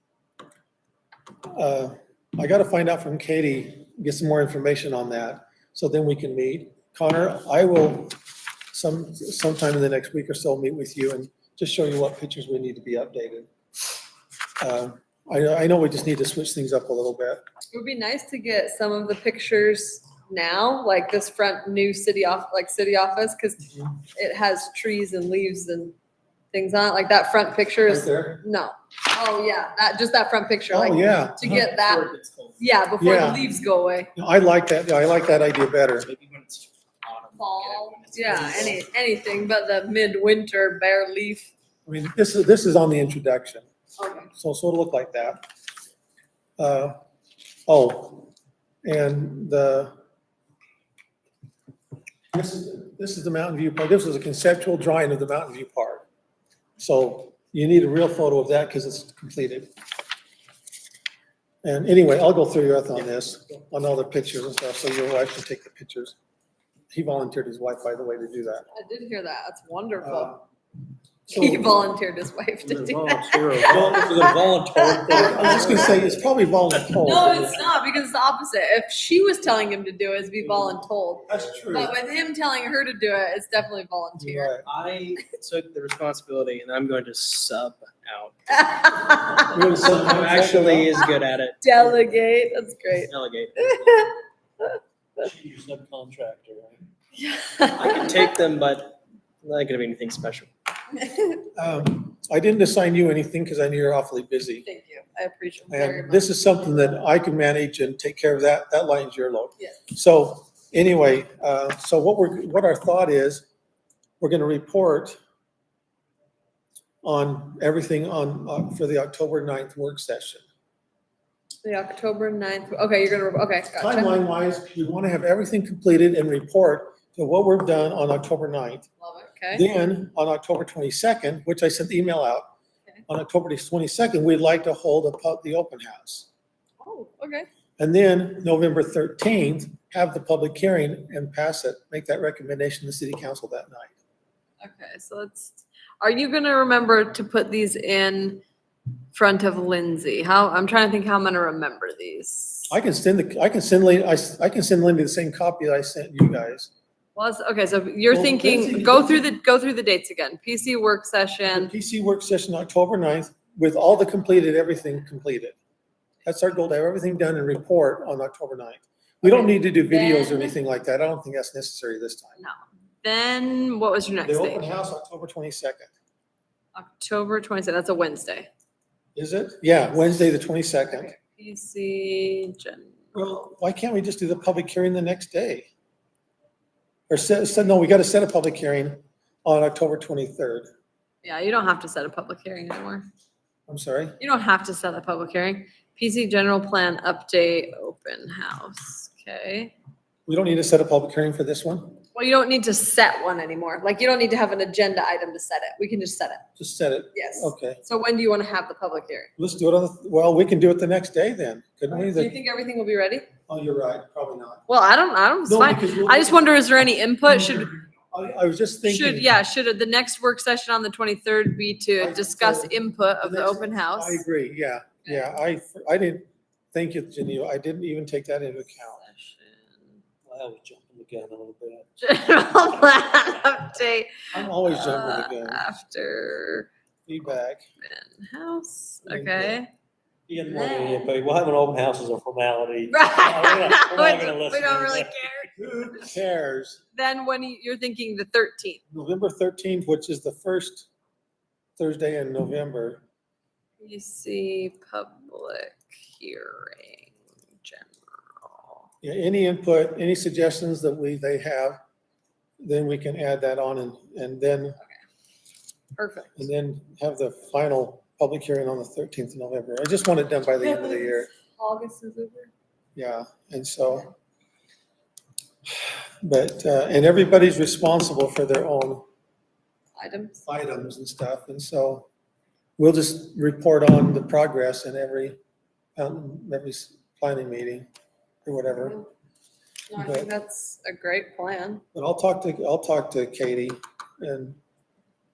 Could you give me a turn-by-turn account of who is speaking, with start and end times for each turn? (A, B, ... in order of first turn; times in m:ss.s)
0:01.5-0:08.1 A
0:08.7-0:13.5 A
0:14.6-0:17.4 A
0:17.7-0:25.9 B
0:26.5-0:34.1 B
0:27.8-0:28.4 A
0:30.7-0:31.6 A
0:31.5-0:32.6 C
0:33.0-0:33.4 A
0:34.2-0:36.1 A
0:36.0-0:38.8 C
0:37.4-0:41.5 B
0:41.8-0:43.6 A
0:44.0-0:44.3 B
0:44.3-0:45.4 A
0:46.6-0:47.0 A
0:47.7-0:48.3 A
0:48.8-0:49.9 A
0:52.3-0:56.0 A
0:56.8-0:59.7 A
1:01.6-1:06.1 A
1:06.9-1:08.6 A
1:08.7-1:10.4 B
1:10.0-1:10.4 A
1:11.3-1:11.6 A
1:11.3-1:16.0 B
1:12.6-1:16.0 D
1:15.1-1:17.6 A
1:16.9-1:24.5 B
1:21.3-1:21.9 A
1:24.2-1:24.7 A
1:24.6-1:28.6 C
1:28.5-1:29.7 B
1:29.5-1:30.9 A
1:29.6-1:31.6 C
1:31.6-1:34.8 B
1:33.0-1:34.0 C
1:35.2-1:36.9 D
1:37.2-1:38.2 B
1:37.8-1:40.5 C
1:40.9-1:41.4 B
1:41.5-1:44.6 A
1:44.6-1:46.3 B
1:45.7-1:53.4 A
1:54.2-1:55.2 A
1:57.0-2:00.4 A
2:01.6-2:04.2 B
2:03.8-2:08.8 A
2:09.0-2:09.6 B
2:09.5-2:12.5 A
2:13.1-2:16.3 A
2:16.8-2:17.5 B
2:17.8-2:23.9 A
2:24.6-2:28.4 B
2:29.1-2:32.7 B
2:32.7-2:36.7 A
2:37.2-2:41.7 B
2:38.1-2:39.2 A
2:41.5-2:45.6 A
2:46.2-2:52.4 A
2:49.2-2:50.5 B
2:52.4-2:54.6 B
2:54.2-2:55.9 A
2:56.7-2:58.5 B
2:59.1-3:01.1 A
3:00.9-3:03.4 B
3:03.1-3:05.7 A
3:07.1-3:10.7 A
3:11.2-3:13.0 B
3:13.7-3:14.2 A
3:14.2-3:19.7 B
3:20.3-3:22.0 A
3:22.1-3:26.4 B
3:26.6-3:27.8 A
3:27.1-3:29.3 B
3:29.4-3:32.3 A
3:31.9-3:33.3 B
3:33.5-3:34.6 A
3:34.7-3:37.7 B
3:35.5-3:36.5 A
3:37.2-3:39.3 A
3:38.8-3:44.2 B
3:42.0-3:49.0 A
3:45.0-3:45.3 B
3:48.7-3:50.0 B
3:50.3-3:51.9 D
3:52.0-3:56.7 B
3:54.3-3:55.6 A
3:57.0-3:57.6 A
3:57.8-3:59.7 B
3:59.0-3:59.6 A
4:00.3-4:05.3 D
4:00.4-4:01.1 B
4:02.9-4:06.1 B
4:05.6-4:06.8 A
4:07.0-4:08.8 B
4:08.9-4:10.9 A
4:11.8-4:13.0 A
4:13.8-4:18.9 B
4:19.0-4:21.8 A
4:22.6-4:24.8 A
4:26.0-4:26.5 B
4:26.3-4:31.3 A
4:30.6-4:32.5 B
4:33.0-4:34.1 A
4:35.8-4:39.0 A
4:40.0-4:40.4 B
4:40.4-4:42.1 A
4:42.8-4:45.4 A
4:46.0-4:47.9 A
4:48.4-4:49.0 A
4:49.9-4:51.8 B
4:50.0-4:50.3 A
4:51.9-4:54.6 A